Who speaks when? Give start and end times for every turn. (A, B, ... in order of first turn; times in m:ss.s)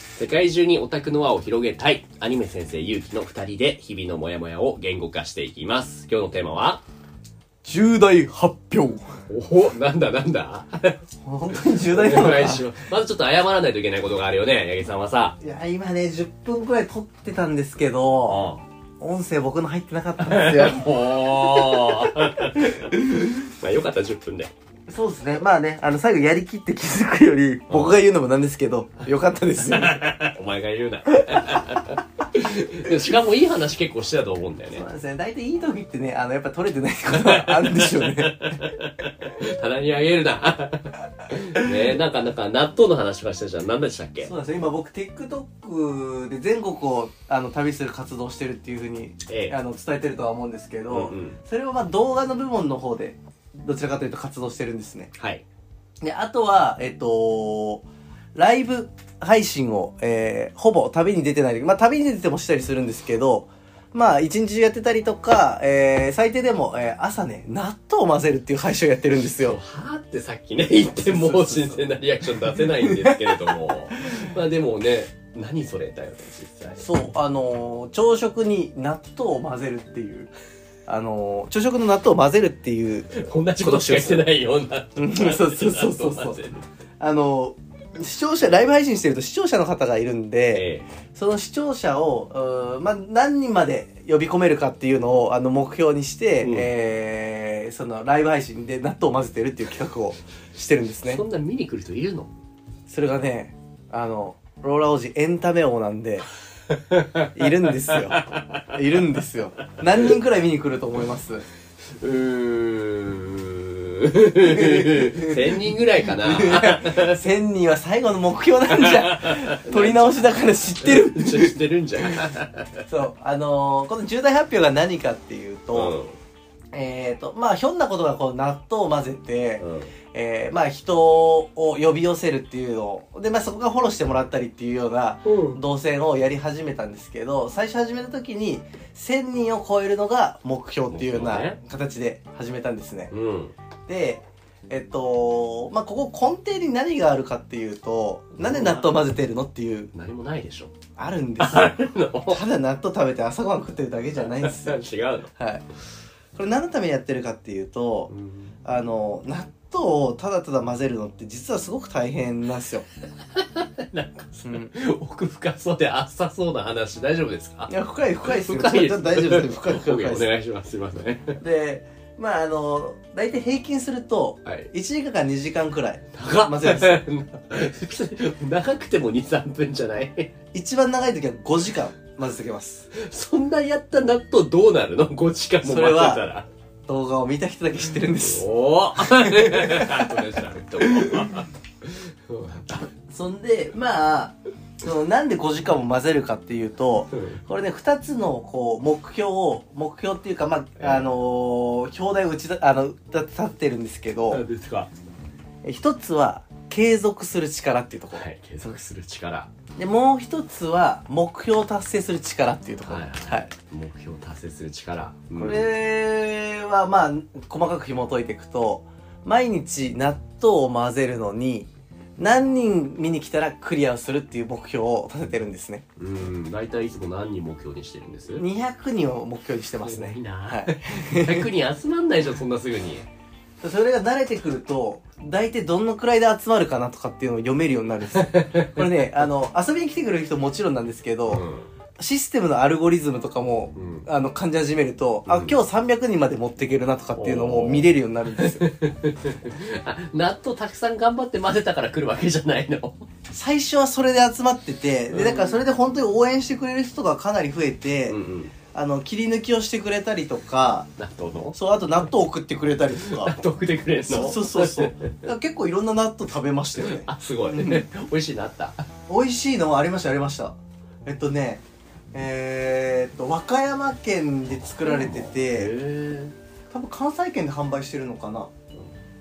0:00.2-0:06.8 A
0:07.6-0:09.0 B
0:09.3-0:10.9 A
0:11.2-0:12.7 B
0:11.6-0:15.4 A
0:15.4-0:18.5 B
0:18.3-0:18.6 A
0:19.0-0:20.8 B
0:20.2-0:24.5 A
0:24.9-0:30.0 B
0:27.7-0:28.0 A
0:29.7-0:34.8 A
0:31.2-0:31.5 B
0:34.7-0:38.6 B
0:37.1-0:44.3 A
0:44.2-0:55.1 B
0:49.3-0:49.6 A
0:50.9-0:51.4 A
0:55.2-0:55.4 A
0:56.0-1:09.6 B
1:09.4-1:16.9 A
1:10.8-1:14.2 B
1:16.8-1:20.3 B
1:20.9-1:24.3 B
1:23.1-1:26.6 A
1:25.0-1:26.4 B
1:27.0-1:41.2 B
1:30.5-1:30.9 A
1:36.4-1:36.7 A
1:41.0-1:42.3 A
1:42.9-1:46.3 B
1:46.7-1:47.3 A
1:47.3-1:48.2 B
1:47.9-1:48.7 A
1:48.7-1:51.4 B
1:52.0-1:57.2 A
1:54.4-2:01.6 B
1:58.7-2:02.8 A
2:02.9-2:06.0 B
2:05.7-2:06.2 A
2:06.7-2:23.1 B
2:09.6-2:09.9 A
2:15.2-2:15.6 A
2:20.9-2:21.6 A
2:23.1-2:23.5 A
2:23.9-2:29.9 B
2:28.4-2:29.1 A
2:29.9-2:30.7 A
2:31.0-2:34.8 B
2:31.4-2:32.4 A
2:34.2-2:35.3 A
2:35.4-2:35.6 B
2:36.3-2:38.1 B
2:38.1-2:38.6 A
2:38.6-2:42.8 B
2:43.3-2:47.7 A
2:44.4-2:44.7 B
2:47.7-2:50.3 B
2:48.2-2:51.4 A
2:51.4-2:57.0 B
2:54.4-2:54.7 A
2:56.1-3:00.3 A
3:00.5-3:02.9 B
3:02.9-3:06.5 A
3:05.6-3:06.2 B
3:06.9-3:11.3 B
3:08.2-3:12.9 A
3:13.1-3:24.4 B
3:17.1-3:17.4 A
3:20.8-3:21.1 A
3:24.3-3:24.9 A
3:25.6-3:28.8 B
3:28.1-3:29.5 A
3:29.8-3:33.5 B
3:32.8-3:35.7 A
3:35.4-3:45.8 B
3:46.0-3:48.4 A
3:48.3-3:51.5 B
3:49.8-3:53.1 A
3:53.6-4:01.4 B
3:58.2-3:58.8 A
4:01.3-4:01.7 A
4:02.0-4:08.7 B
4:03.7-4:04.0 A
4:05.3-4:05.6 A
4:07.2-4:13.0 A
4:13.3-4:18.2 B
4:15.1-4:15.6 A
4:18.1-4:18.5 A
4:18.7-4:20.9 B
4:21.0-4:21.6 A
4:21.5-4:23.4 B
4:23.0-4:25.2 A
4:24.0-4:27.8 B
4:26.8-4:28.8 A
4:29.1-4:35.7 B
4:34.8-4:36.3 A
4:36.7-4:38.5 B